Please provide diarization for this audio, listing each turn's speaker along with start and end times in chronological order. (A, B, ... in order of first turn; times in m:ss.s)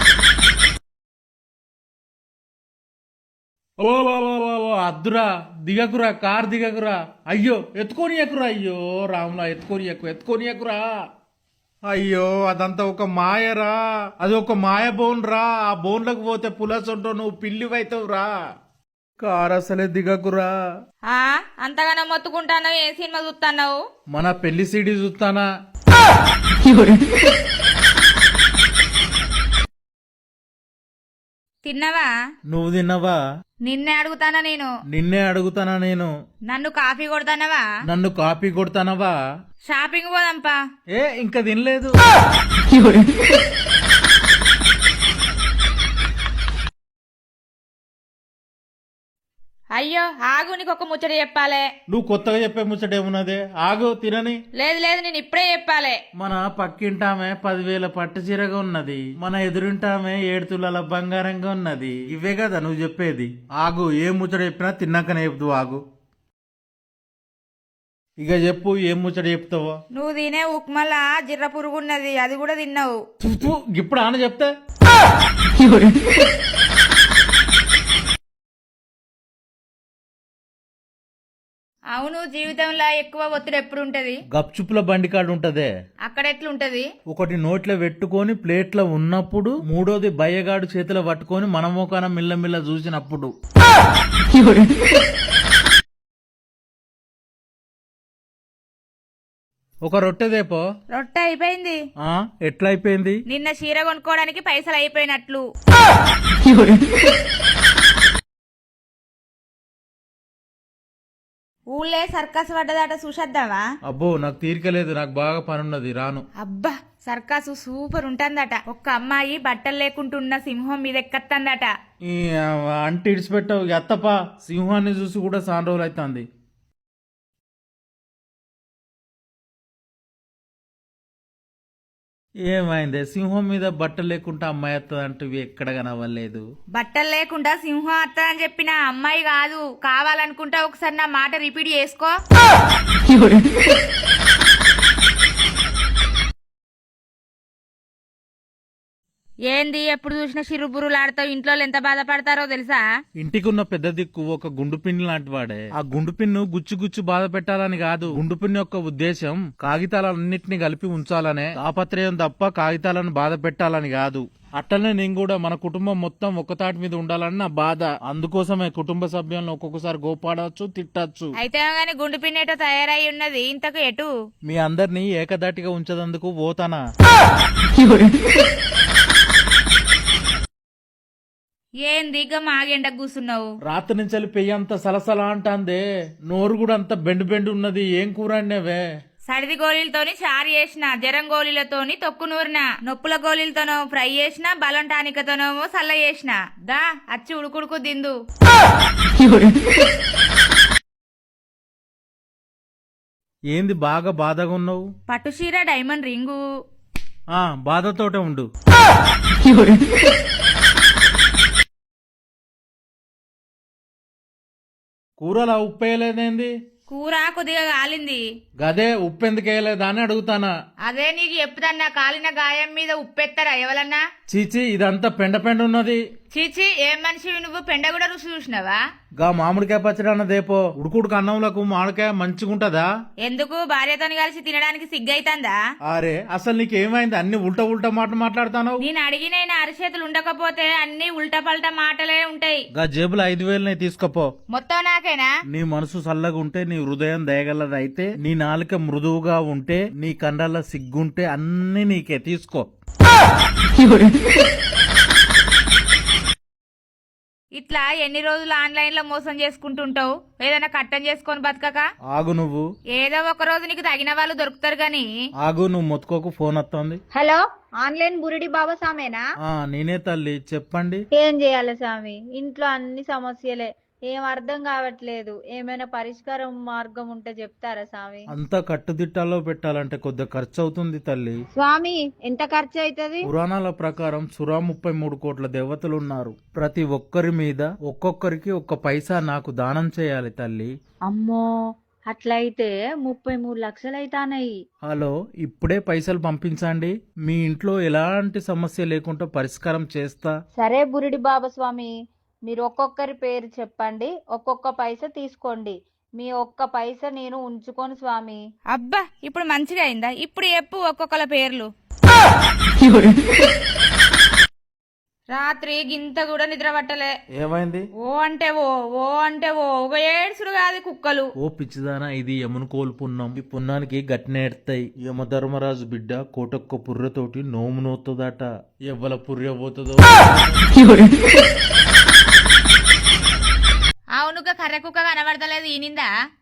0:03.8-0:10.8 A
0:11.9-0:18.3 A
0:19.2-0:20.5 A
0:21.1-0:23.8 B
0:24.1-0:25.4 A
0:31.6-0:32.1 B
0:32.5-0:33.2 A
0:33.6-0:34.7 B
0:34.9-0:36.1 A
0:36.5-0:37.7 B
0:37.9-0:39.1 A
0:39.7-0:40.6 B
0:40.9-0:41.9 A
0:49.7-0:51.7 B
0:51.9-0:54.4 A
0:54.6-0:56.0 B
0:56.2-1:05.8 A
1:08.2-1:09.8 A
1:09.9-1:13.0 B
1:13.2-1:14.5 A
1:21.9-1:24.2 B
1:24.3-1:25.7 A
1:26.0-1:26.8 B
1:27.1-1:33.3 A
1:39.8-1:40.6 A
1:40.9-1:41.8 B
1:42.0-1:43.2 A
1:43.3-1:45.4 B
1:51.7-1:53.6 B
1:53.8-1:56.2 A
1:56.4-2:01.7 B
2:02.0-2:06.2 A
2:12.4-2:16.4 A
2:16.7-2:22.1 B
2:29.5-2:32.8 B
2:33.2-2:51.3 A
2:51.4-2:54.1 B
2:54.5-2:56.8 A
3:01.8-3:03.5 B
3:03.6-3:08.8 A
3:09.3-3:18.1 B
3:23.5-3:24.8 A
3:25.1-3:26.4 B
3:27.3-3:28.5 A
3:35.2-3:36.5 A
3:36.9-3:38.2 B
3:38.6-3:40.5 A
3:40.8-3:44.0 B
3:44.3-3:46.0 A
3:46.3-3:48.8 B
3:49.2-3:52.9 A
3:53.2-3:55.6 B
3:55.9-3:58.8 A
3:58.8-4:02.6 B
4:02.7-4:04.3 A
4:04.5-4:05.3 B
4:05.5-4:12.6 A
4:17.6-4:21.8 B
4:22.1-4:22.6 A
4:22.9-4:25.1 B
4:25.4-4:27.0 A
4:27.2-4:29.2 C
4:29.4-4:31.0 A
4:31.2-4:38.2 C
4:38.3-4:41.4 A
4:41.6-4:43.2 C
4:43.2-4:50.7 A
4:51.1-4:51.4 C
4:52.1-4:54.5 C
4:54.9-5:00.3 A
5:00.6-5:01.9 C
5:02.5-5:08.4 C
5:08.7-5:11.7 B
5:15.3-5:17.1 B
5:17.4-5:17.8 A
5:18.0-5:21.3 B
5:21.4-5:30.8 A
5:34.2-5:36.1 B